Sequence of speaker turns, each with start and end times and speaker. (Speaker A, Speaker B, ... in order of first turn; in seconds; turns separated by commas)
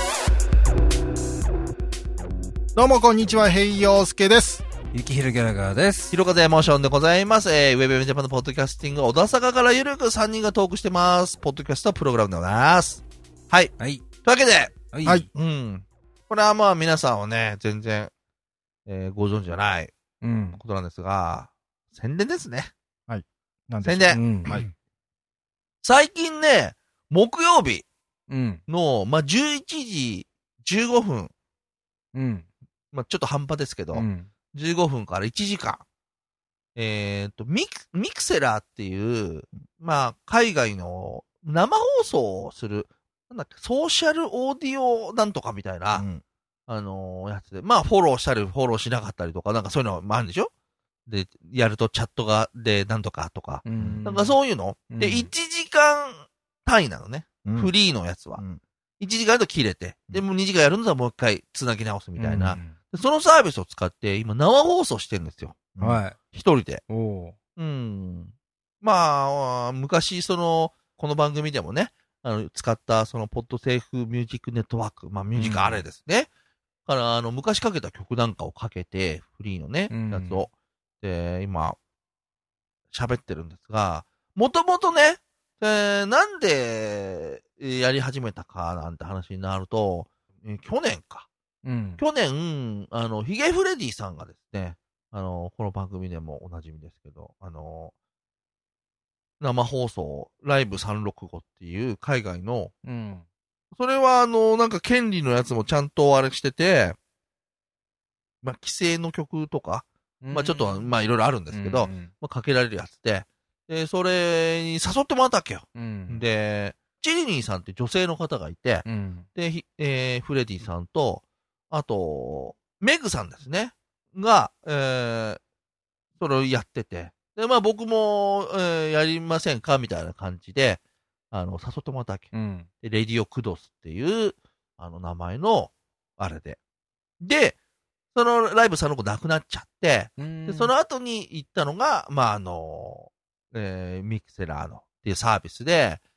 Speaker A: 2.8-4.6, Speaker B: 4.9-6.1, Speaker C: 6.1-13.7, Speaker B: 13.8-14.1, Speaker C: 14.2-18.1, Speaker B: 14.9-15.3, Speaker C: 18.9-19.9, Speaker B: 20.2-20.6, Speaker C: 20.6-22.7, Speaker A: 23.1-24.7, Speaker C: 23.8-24.7, Speaker B: 24.1-24.6, Speaker C: 25.8-27.9, Speaker B: 28.3-28.6, Speaker C: 28.7-31.3, Speaker B: 32.1-32.5, Speaker C: 32.9-35.8, Speaker B: 33.9-34.3, Speaker C: 36.8-46.1, Speaker A: 45.9-46.2, Speaker C: 46.7-50.5, Speaker C: 51.0-58.4, Speaker B: 53.6-54.3, Speaker B: 54.9-55.3, Speaker A: 57.4-57.7, Speaker C: 59.0-65.8, Speaker B: 62.2-62.7, Speaker B: 65.8-66.2, Speaker C: 66.3-66.8, Speaker B: 66.9-67.3, Speaker C: 67.6-76.3, Speaker B: 75.3-75.8, Speaker C: 76.8-80.5, Speaker B: 79.9-80.5, Speaker C: 81.0-81.8, Speaker C: 82.9-91.3, Speaker B: 91.6-92.0, Speaker C: 92.0-97.9, Speaker C: 99.4-102.7, Speaker B: 102.8-103.2, Speaker C: 103.7-107.0, Speaker C: 108.4-118.8, Speaker B: 110.2-110.9, Speaker B: 111.5-112.1, Speaker B: 115.7-116.2, Speaker B: 118.8-119.2, Speaker C: 119.3-125.4, Speaker C: 126.2-136.6, Speaker B: 132.3-132.7, Speaker C: 137.2-137.6, Speaker C: 138.1-146.0, Speaker B: 140.2-140.7